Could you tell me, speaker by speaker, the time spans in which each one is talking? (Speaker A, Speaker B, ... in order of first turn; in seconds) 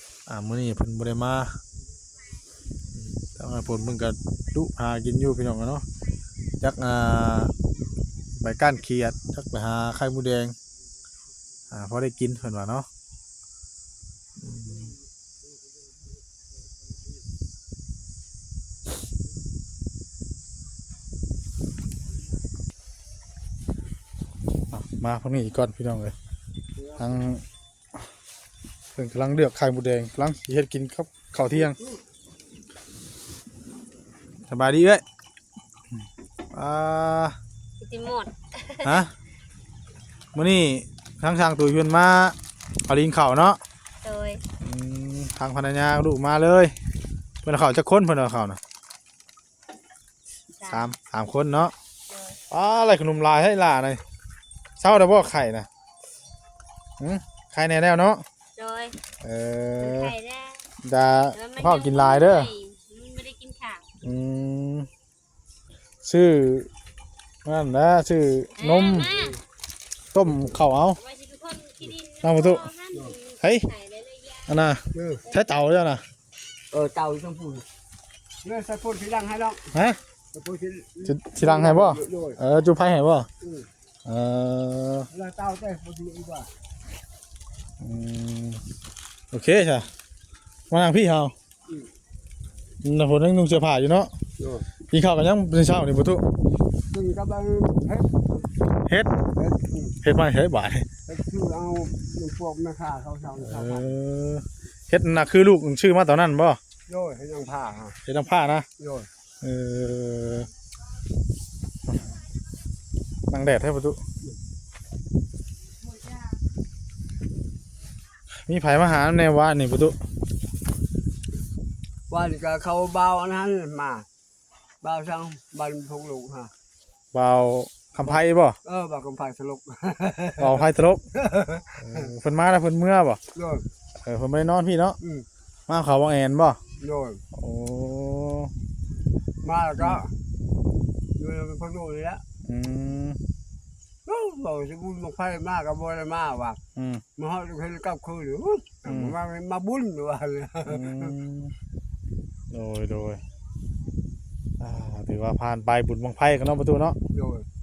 Speaker A: 0.3-1.6, 2.9-5.8, 6.6-7.5, 8.4-10.5, 11.7-12.9, 14.4-14.9, 24.7-26.1, 27.0-27.4, 28.9-31.8, 34.5-35.0, 36.5-37.4, 38.8-39.1, 40.3-42.4, 42.9-43.6, 44.6-46.7, 47.4-48.6, 50.7-51.7, 52.5-54.0, 54.8-55.7, 57.0-58.2, 59.2-60.1, 60.8-62.5, 64.0-64.9, 66.0-66.7, 67.5-69.1, 70.1-71.0, 72.2-72.7, 73.4-73.7, 74.5-76.0, 79.7-80.0, 81.0-83.3, 84.1-85.1, 87.8-88.6, 89.3-89.9, 90.7-91.3, 92.8-94.1, 94.9-96.2, 100.0-100.9, 103.4-106.6, 108.1-108.7, 109.4-110.5, 113.3-114.0, 118.4-120.0, 127.1-128.6, 130.4-131.0, 131.8-133.2, 134.0-135.0, 135.7-136.6, 137.3-138.5, 142.4-143.2, 146.8-147.0, 148.8-149.2, 150.7-151.5, 152.5-153.2, 154.6-157.0
Speaker B: 26.8-27.1, 31.6-31.9, 74.9-75.2, 76.7-77.7, 78.4-79.7, 80.3-82.4, 83.4-83.7, 85.1-86.5, 94.4-94.7, 96.9-98.5, 99.3-100.0, 101.1-103.8, 106.9-108.0, 108.8-109.1, 122.1-124.1, 124.8-126.5, 128.7-132.1, 133.3-133.7, 135.0-135.3, 136.8-137.2, 139.4-140.1, 141.2-142.2, 144.1-146.6, 147.2-151.1, 157.1-157.5
Speaker C: 37.8-39.0, 44.0-44.4, 50.6-50.9, 58.6-59.0, 59.8-60.6, 61.3-63.9, 68.6-69.4, 71.0-74.5